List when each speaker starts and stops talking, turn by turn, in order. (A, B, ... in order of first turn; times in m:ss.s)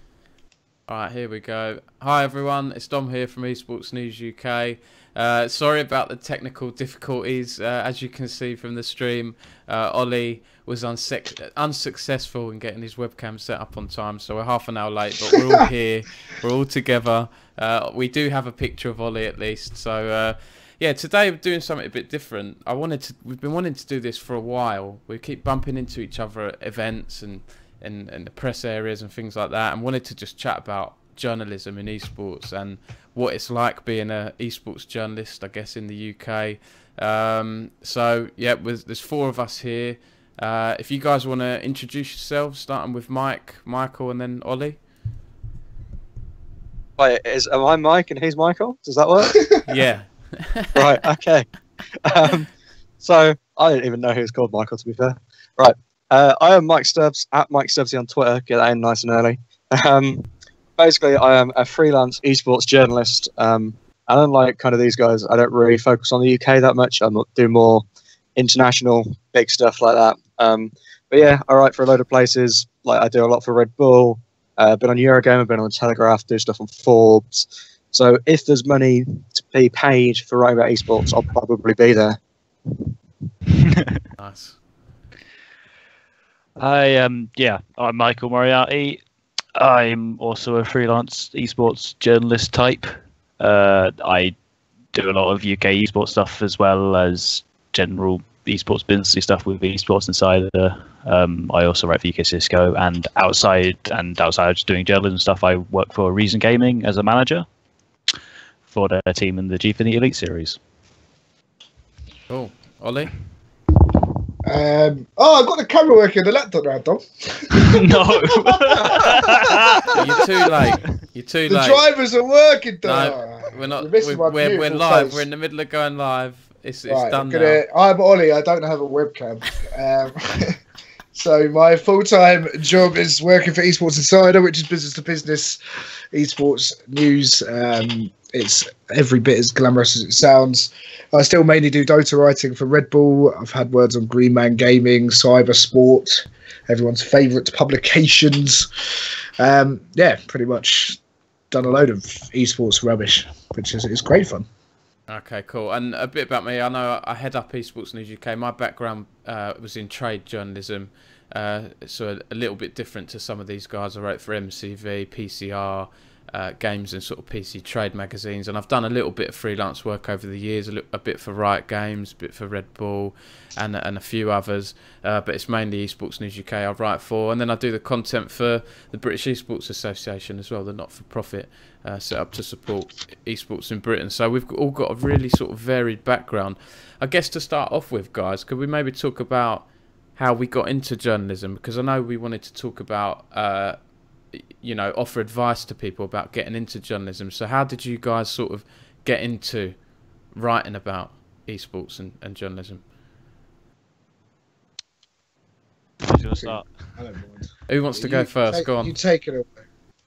0:00.9-0:44.8 A
0:47.0-0:49.7 B
0:49.7-0:50.8 A
0:50.7-0:51.5 B
0:52.0-0:52.5 B
0:53.0-1:00.3 B
1:00.8-1:07.8 B
1:08.4-1:22.9 B
1:24.2-1:24.6 A
1:26.6-1:29.0 C
1:29.6-1:34.3 C
1:34.9-1:47.4 C
1:48.7-1:50.6 C
1:52.3-1:53.1 A
1:54.4-1:59.9 D
1:57.5-1:59.9 C
1:59.9-2:01.8 A
2:01.5-2:05.2 D
2:02.8-2:07.6 A
2:06.9-2:10.6 D
2:11.1-2:15.6 D
2:16.1-2:28.7 D
2:29.4-2:31.0 D
2:31.5-2:34.4 D
2:35.1-3:13.8 A
3:14.3-3:19.8 A
3:20.3-3:22.8 A
3:26.0-3:26.7 C
3:26.4-3:29.5 D
3:27.7-3:29.0 A